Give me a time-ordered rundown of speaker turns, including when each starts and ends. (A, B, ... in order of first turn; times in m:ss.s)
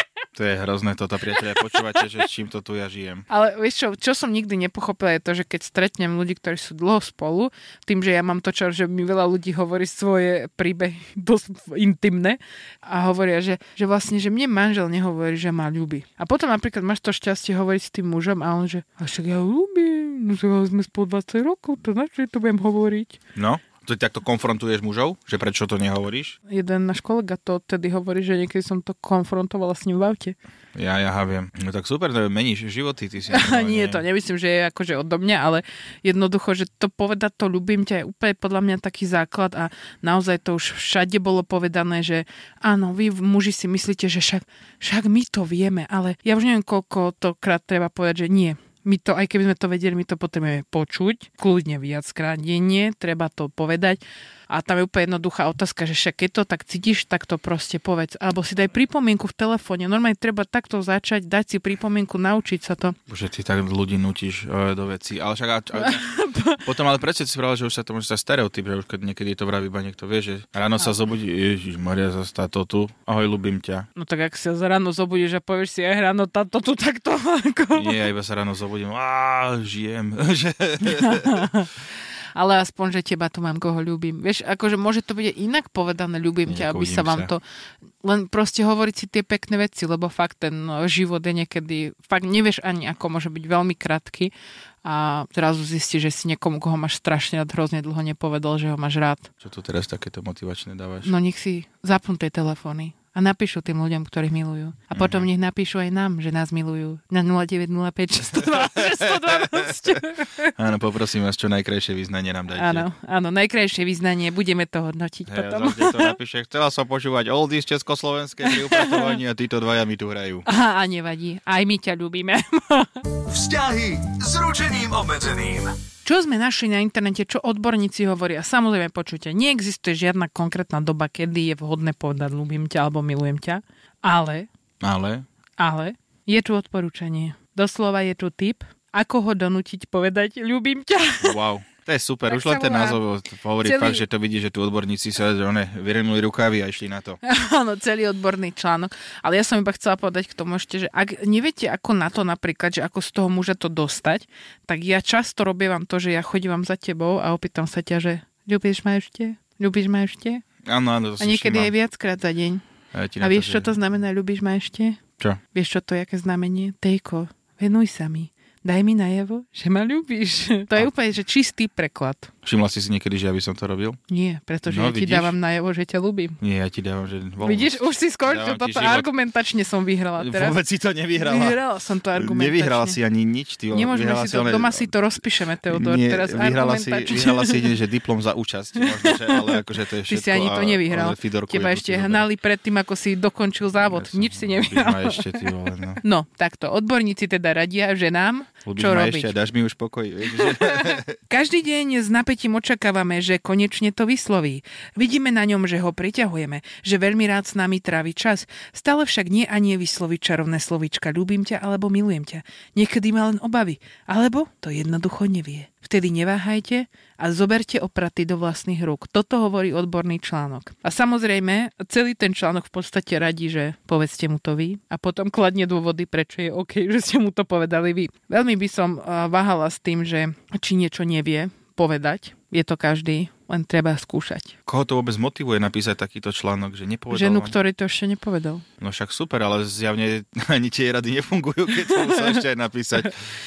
0:00.3-0:03.2 A
0:01.4-0:02.1 B
0:03.3-0:23.2 B
0:23.4-0:26.4 A
0:26.5-0:30.3 B
0:30.7-0:34.0 A
0:33.3-1:02.9 B
1:03.1-1:06.1 A
1:05.8-1:06.6 B
1:06.6-1:13.9 A
1:14.0-1:18.0 B
1:17.7-1:21.5 A
1:20.9-1:21.7 B
1:22.3-1:27.4 B
1:26.5-1:27.3 A
1:28.0-1:34.3 B
1:34.8-1:39.3 B
1:39.4-1:41.1 A
1:41.0-1:50.5 B
1:44.9-1:45.3 A
1:48.8-1:50.0 A
1:50.6-1:52.9 A
1:52.5-1:56.2 B
1:55.3-2:00.4 A
1:58.4-1:59.2 B
2:00.4-2:03.0 B
2:03.2-2:05.8 C
2:06.0-2:14.5 B
2:14.8-2:15.2 A
2:15.6-2:21.4 B
2:21.2-2:27.2 A
2:22.3-2:23.0 B
2:23.6-2:24.0 B
2:27.2-2:40.4 B
2:40.6-2:41.7 A
2:41.2-2:42.6 B
2:42.9-2:43.7 A
2:43.2-2:52.3 B
2:52.4-2:54.0 A
2:54.1-2:56.4 B
2:54.6-2:55.3 A
2:56.4-2:59.1 A
2:57.4-3:00.6 B
3:00.2-3:01.6 A
3:01.2-3:03.0 B
3:02.1-3:04.9 A
3:03.7-3:07.7 B
3:05.7-3:12.3 A
3:08.8-3:15.5 B
3:13.8-3:16.0 A
3:16.0-3:19.3 B
3:18.6-3:21.2 A
3:20.4-3:54.5 B
3:54.7-3:57.6 A
3:57.1-3:58.6 B
3:58.8-4:03.2 A
4:01.8-4:02.4 B